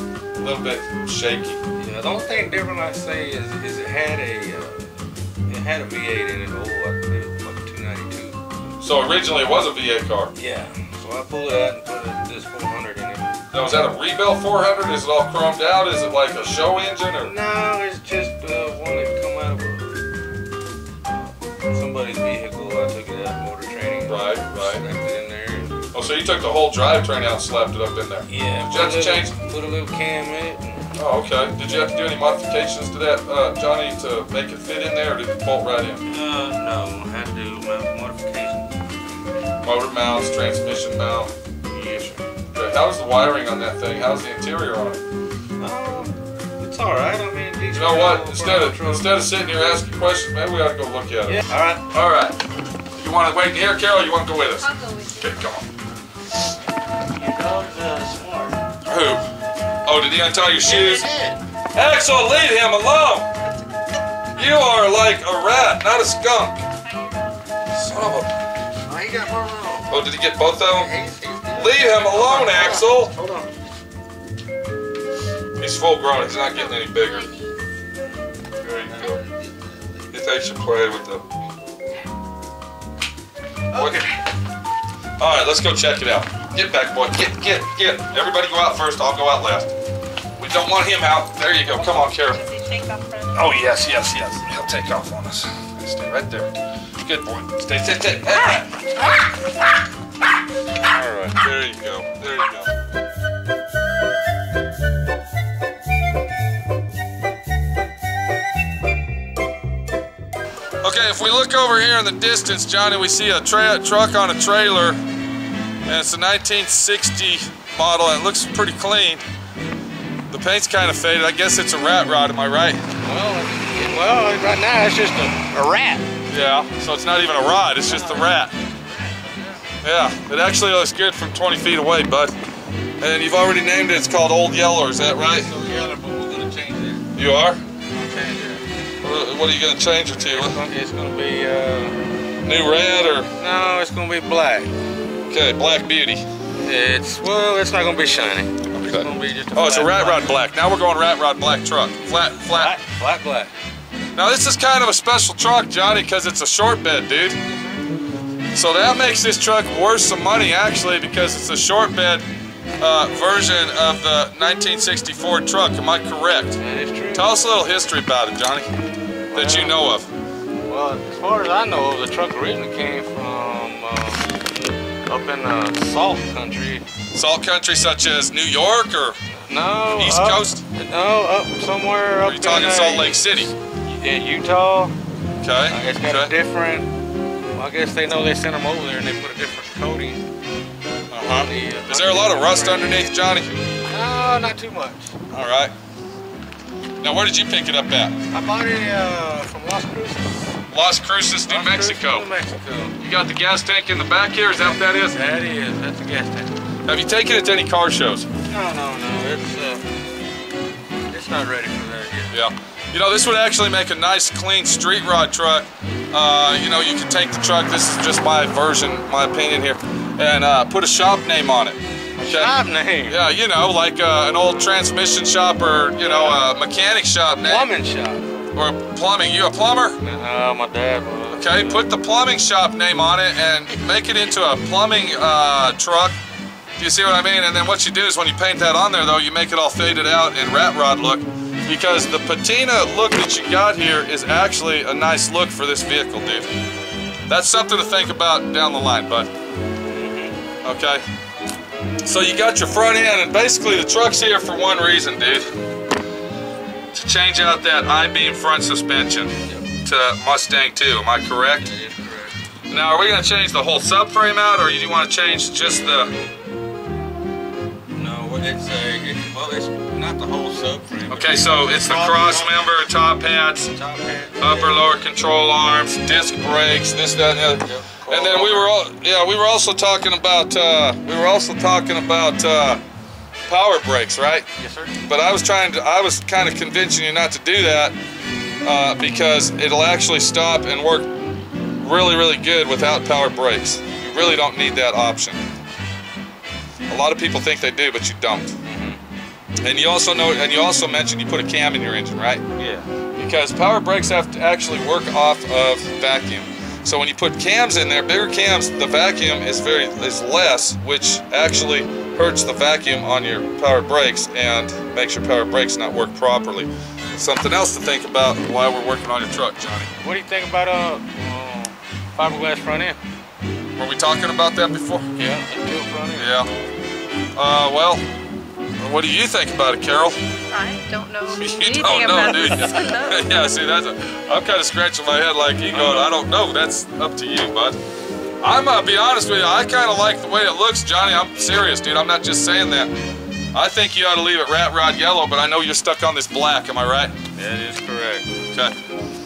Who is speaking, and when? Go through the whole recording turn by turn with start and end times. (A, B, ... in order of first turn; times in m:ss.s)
0:00.4-0:01.6 A
0:01.8-0:04.9 B
0:05.5-0:08.4 B
0:08.8-0:10.3 A
0:10.4-0:13.3 B
0:13.5-0:17.3 A
0:17.2-0:20.0 B
0:21.1-0:25.8 B
0:24.1-0:24.8 A
0:25.9-0:29.4 A
0:28.3-0:30.9 B
0:31.0-0:36.0 A
0:36.1-0:38.7 B
0:39.6-0:41.3 A
0:41.7-0:42.2 B
0:42.5-0:45.0 A
0:45.6-0:49.2 B
0:47.7-0:52.4 A
0:51.3-0:51.9 B
0:53.0-0:55.7 A
0:54.6-0:55.4 C
0:57.1-0:58.6 B
0:58.9-0:59.2 A
0:59.8-1:01.1 A
1:00.6-1:01.4 B
1:01.7-1:03.3 A
1:04.4-1:06.6 A
1:06.8-1:07.4 C
1:07.7-1:08.4 A
1:08.9-1:10.0 B
1:09.9-1:10.9 A
1:10.7-1:13.5 B
1:11.5-1:13.2 A
1:15.6-1:17.3 A
1:16.4-1:17.6 C
1:18.6-1:19.2 A
1:18.8-1:20.0 B
1:20.1-1:21.2 A
1:23.7-1:24.2 B
1:23.7-1:24.0 A
1:25.2-1:29.7 A
1:30.4-1:32.4 A
1:31.7-1:33.6 C
1:33.3-1:38.9 A
1:40.8-1:41.4 B
1:41.4-1:42.7 A
1:50.8-1:55.0 A
1:55.9-1:59.2 A
2:00.3-2:02.8 A
2:03.0-2:06.1 B
2:06.3-2:08.5 A
2:07.9-2:09.6 B
2:09.8-2:12.4 A
2:13.0-2:15.5 A
2:15.2-2:17.1 B
2:17.1-2:17.6 A
2:17.9-2:18.6 B
2:19.0-2:20.6 A
2:20.1-2:22.0 B
2:22.4-2:23.3 A
2:23.4-2:24.7 B
2:25.3-2:26.2 A
2:26.6-2:30.4 B
2:28.7-2:32.8 A
2:32.5-2:33.5 B
2:34.2-2:37.4 A
2:37.5-2:37.8 B
2:38.5-2:42.2 A
2:42.8-2:46.6 A
2:46.6-2:47.3 B
2:47.2-2:48.7 A
2:49.3-2:49.8 B
2:49.3-2:50.1 A
2:50.7-2:54.3 B
2:55.1-2:56.8 B
2:57.1-2:59.2 A
2:59.3-3:04.9 B
2:59.9-3:00.6 A
3:02.2-3:03.5 A
3:05.4-3:06.4 A
3:05.7-3:06.9 B
3:07.6-3:10.2 B
3:11.1-3:13.6 A
3:11.3-3:13.1 B
3:13.8-3:15.2 B
3:15.3-3:15.7 A
3:17.0-3:18.2 A
3:18.3-3:20.5 B
3:20.7-3:22.3 A
3:21.5-3:23.0 B
3:23.0-3:25.2 A
3:24.6-3:26.5 B
3:26.8-3:28.3 A
3:28.5-3:29.8 B
3:31.1-3:32.4 B
3:32.3-3:47.7 A
3:42.2-3:43.2 B
3:46.1-3:46.4 B
3:47.3-3:48.3 B
3:48.5-3:50.0 A
3:50.0-3:51.9 B
3:51.4-3:56.2 A
3:56.8-4:06.5 A
4:07.3-4:09.3 A
4:09.9-4:10.4 B
4:10.6-4:11.0 A
4:12.0-4:15.5 A
4:16.9-4:21.7 A
4:19.5-4:19.7 B
4:21.6-4:22.4 B
4:22.7-4:26.1 A
4:27.9-4:32.6 B
4:31.1-4:33.7 A
4:33.7-4:34.9 B
4:34.4-4:42.8 A
4:37.6-4:38.8 B
4:43.5-4:44.5 A
4:44.6-4:45.0 B
4:45.0-4:48.0 A
4:48.6-4:51.1 A
4:51.8-4:55.4 A
4:56.9-4:58.6 A
4:58.6-4:59.0 B
4:59.6-5:02.5 A
5:02.6-5:02.9 B
5:03.2-5:19.9 A
5:20.0-5:23.0 B
5:23.8-5:25.1 A
5:25.2-5:26.3 B
5:26.2-5:26.5 A
5:27.4-5:28.0 A
5:28.8-5:30.2 A
5:30.5-5:33.4 C
5:31.3-5:37.8 A
5:35.7-5:36.1 B
5:38.4-5:42.9 A
5:43.5-5:47.2 A
5:47.4-5:48.3 B